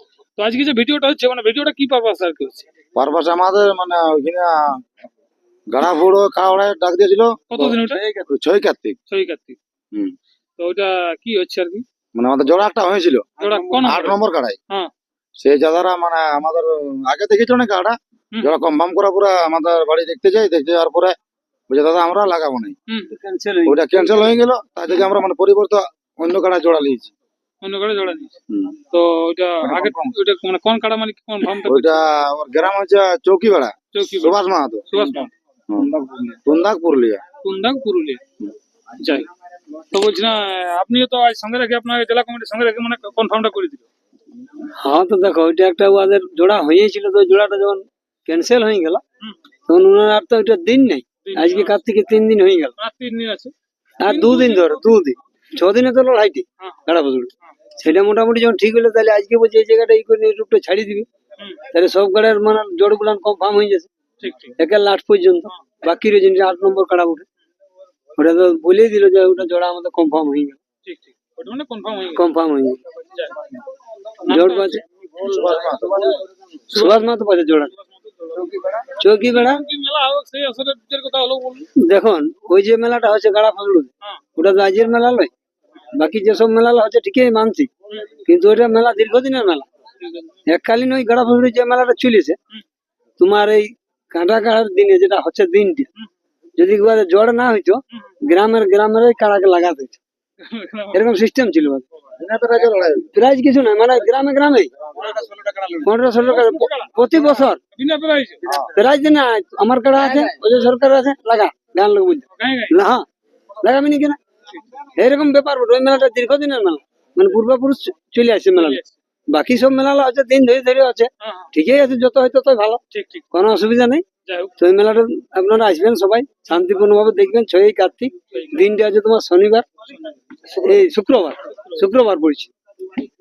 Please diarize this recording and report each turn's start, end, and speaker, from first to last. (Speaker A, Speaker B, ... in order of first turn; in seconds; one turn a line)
Speaker A: 0.4-2.7
Speaker B: 3.0-4.8
Speaker B: 5.7-7.8
Speaker A: 7.5-8.0
Speaker C: 7.8-8.3
Speaker B: 8.3-9.0
Speaker A: 9.1-9.6
Speaker A: 10.6-11.8
Speaker B: 12.2-14.6
Speaker A: 13.4-14.2
Speaker B: 15.4-21.1
Speaker B: 21.7-22.8
Speaker A: 22.9-23.1
Speaker C: 23.1-24.4
Speaker B: 23.7-27.1
Speaker A: 27.6-28.4
Speaker B: 28.5-28.7
Speaker A: 28.9-32.0
Speaker B: 29.6-30.2
Speaker B: 31.6-37.2
Speaker A: 33.9-34.4
Speaker A: 34.9-35.3
Speaker A: 37.4-38.2
Speaker A: 39.0-39.3
Speaker A: 39.9-43.9
Speaker C: 44.8-49.0
Speaker C: 49.7-52.8
Speaker A: 51.2-51.8
Speaker A: 52.8-53.5
Speaker C: 54.0-61.1
Speaker A: 54.0-54.9
Speaker C: 61.7-63.9
Speaker A: 64.2-64.5
Speaker C: 64.6-67.2
Speaker C: 68.2-70.6
Speaker A: 70.8-72.3
Speaker C: 72.1-72.8
Speaker A: 73.2-73.5
Speaker A: 74.2-74.8
Speaker C: 74.3-74.8
Speaker B: 75.2-76.2
Speaker A: 76.7-77.1
Speaker C: 76.7-77.7
Speaker A: 77.7-78.6
Speaker C: 78.8-79.6
Speaker A: 79.3-81.7
Speaker C: 81.8-85.3
Speaker C: 85.9-87.7
Speaker C: 88.2-89.7
Speaker A: 90.0-90.4
Speaker C: 90.5-92.4
Speaker C: 93.2-95.9
Speaker C: 96.6-100.0
Speaker A: 100.4-101.0
Speaker C: 100.9-101.8
Speaker B: 102.2-103.1
Speaker C: 103.1-104.7
Speaker C: 105.8-107.6
Speaker A: 106.2-108.4
Speaker C: 108.7-113.0
Speaker A: 112.3-112.8
Speaker C: 113.6-114.2
Speaker C: 114.9-124.0
Speaker A: 118.5-118.9
Speaker A: 121.2-121.5
Speaker A: 122.9-123.2
Speaker A: 124.2-124.5
Speaker C: 124.6-129.7
Speaker A: 128.3-128.6
Speaker C: 130.5-132.5